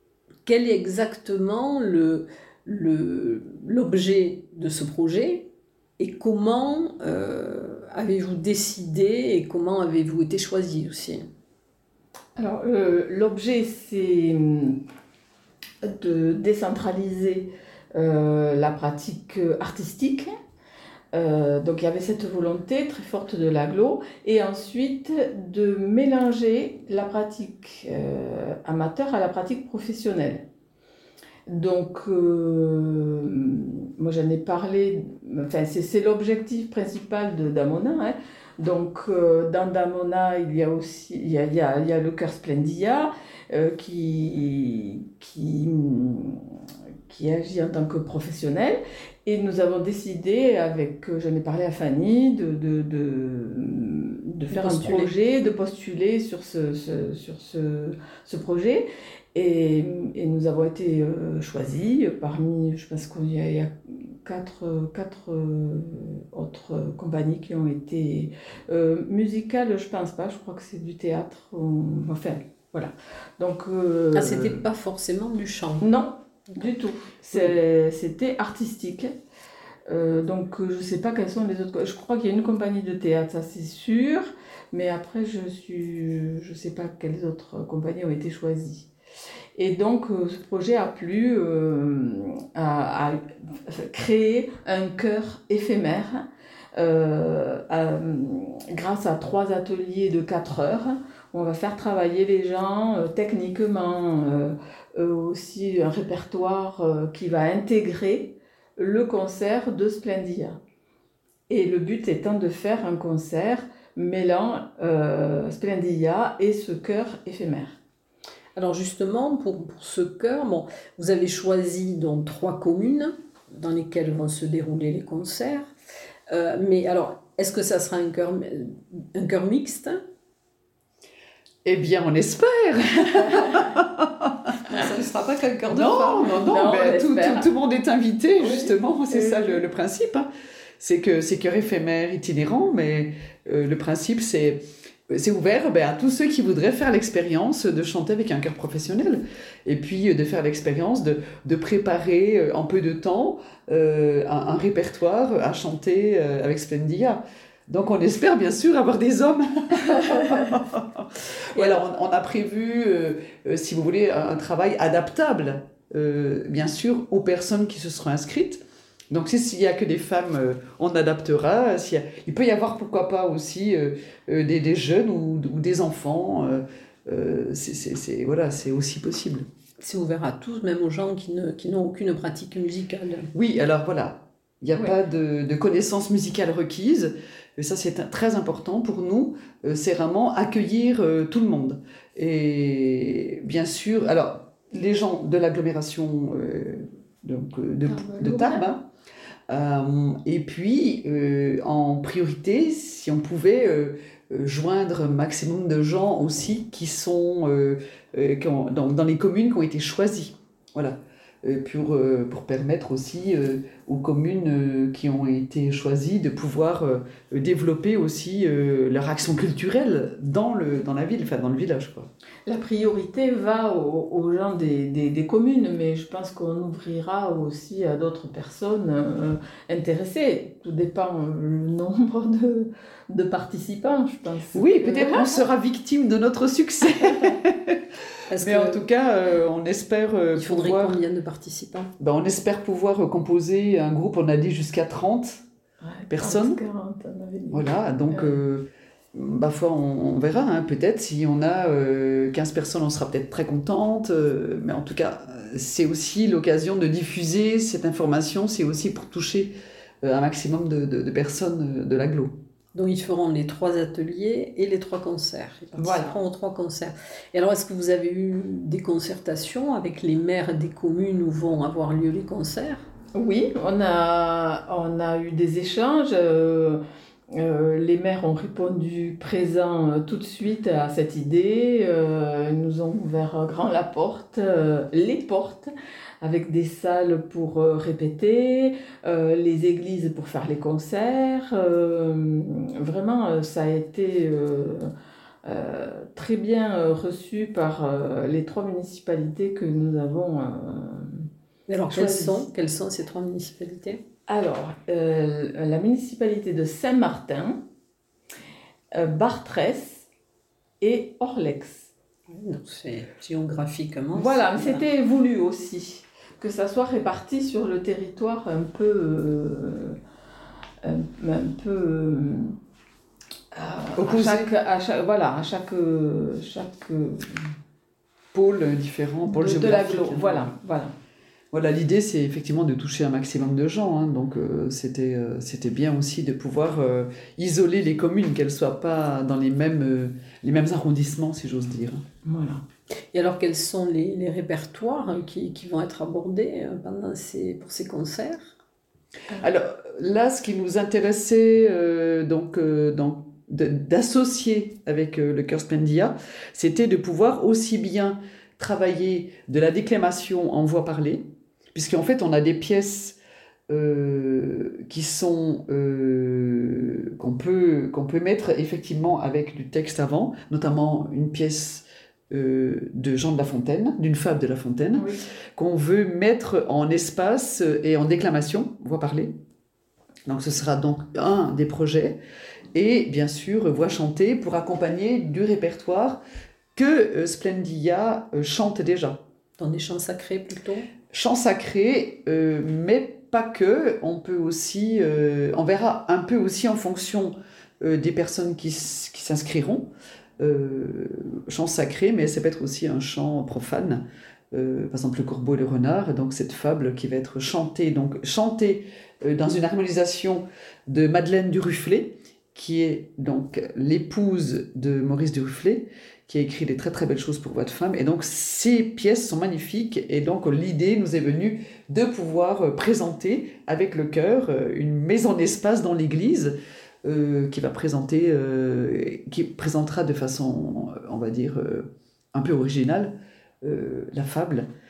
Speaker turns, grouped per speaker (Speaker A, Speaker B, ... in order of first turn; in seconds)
Speaker A: 0.5-11.2, 54.5-55.1, 74.1-75.9, 118.6-125.7, 126.3-130.0, 134.7-136.3, 179.8-183.3, 238.3-238.8, 240.4-241.9, 262.7-272.9, 301.7-304.0, 312.3-314.8, 343.1-348.6, 389.6-390.9
Speaker B: 12.4-14.8, 15.8-20.3, 21.1-30.5, 31.5-46.5, 47.1-74.6, 75.8-79.1, 79.9-88.9, 89.6-96.2, 96.8-110.6, 111.5-117.8, 136.4-137.5, 138.4-139.6, 197.9-198.7, 222.5-235.4, 245.8-248.4, 265.8-266.2, 273.1-276.8, 277.3-294.9, 295.4-301.3, 301.9-302.4, 304.3-307.6, 308.9-310.1, 310.8-311.9, 314.1-320.0, 320.8-322.6, 323.5-327.5, 329.3-330.9, 342.2-342.6, 374.9-375.2
Speaker C: 131.7-134.5, 135.7-140.3, 140.8-179.5, 183.3-198.9, 199.5-222.1, 234.5-237.8, 238.4-241.0, 242.0-245.4, 246.1-246.6, 247.5-262.4, 324.0-324.5, 328.3-330.5, 331.5-342.0, 349.3-363.2, 363.7-379.4, 380.3-382.2, 382.7-386.2, 386.8-389.2, 391.1-434.7